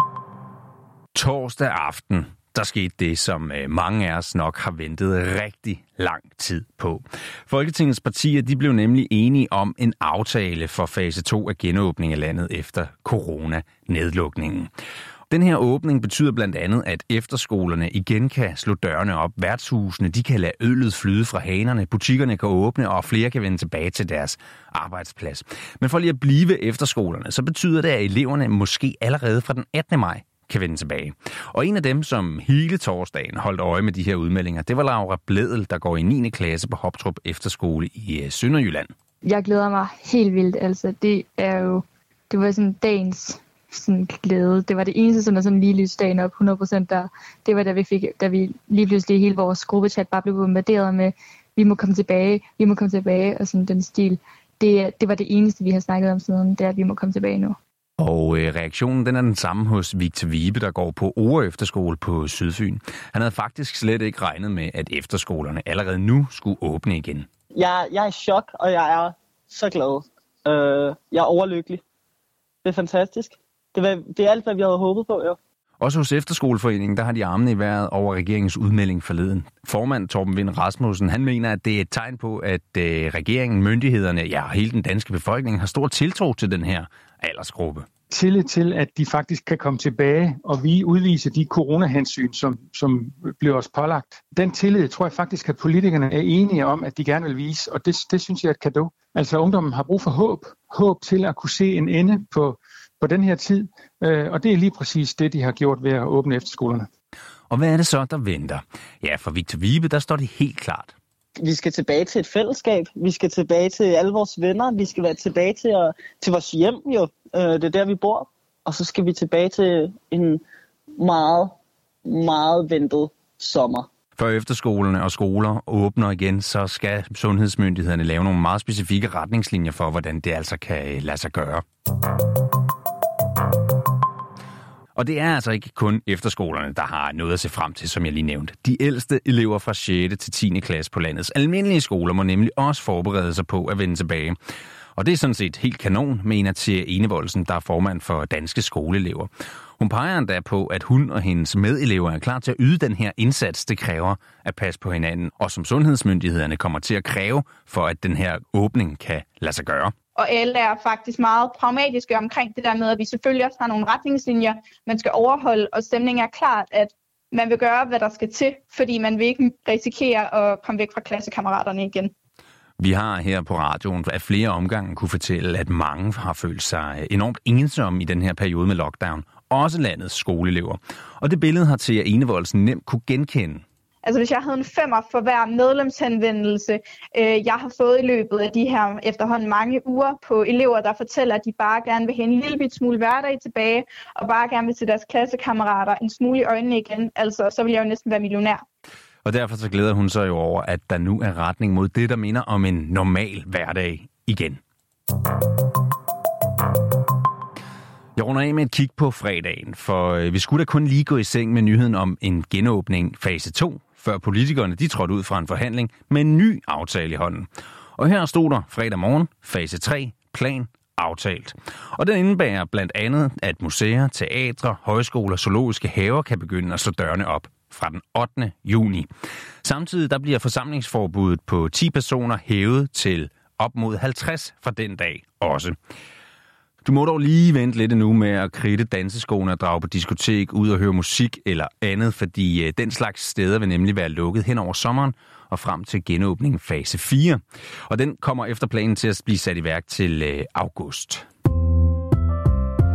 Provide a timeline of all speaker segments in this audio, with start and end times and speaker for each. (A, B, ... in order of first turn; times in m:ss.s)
0:01.2-0:14.7 A
0:15.3-0:38.9 A
0:39.2-0:57.6 B
0:58.0-1:07.3 A
1:07.5-1:11.8 C
1:12.6-1:15.4 C
1:15.8-1:27.9 A
1:28.1-1:46.9 D
1:47.5-1:51.0 A
1:51.4-2:00.4 C
2:01.0-2:03.9 C
2:04.2-2:11.6 A
2:15.0-2:24.4 A
2:25.0-2:39.9 A
2:40.2-2:52.1 E
2:52.8-3:03.6 A
3:04.0-3:18.6 E
3:19.2-3:24.6 A
3:28.2-3:49.1 A
3:49.6-3:55.8 A
3:56.8-4:11.3 A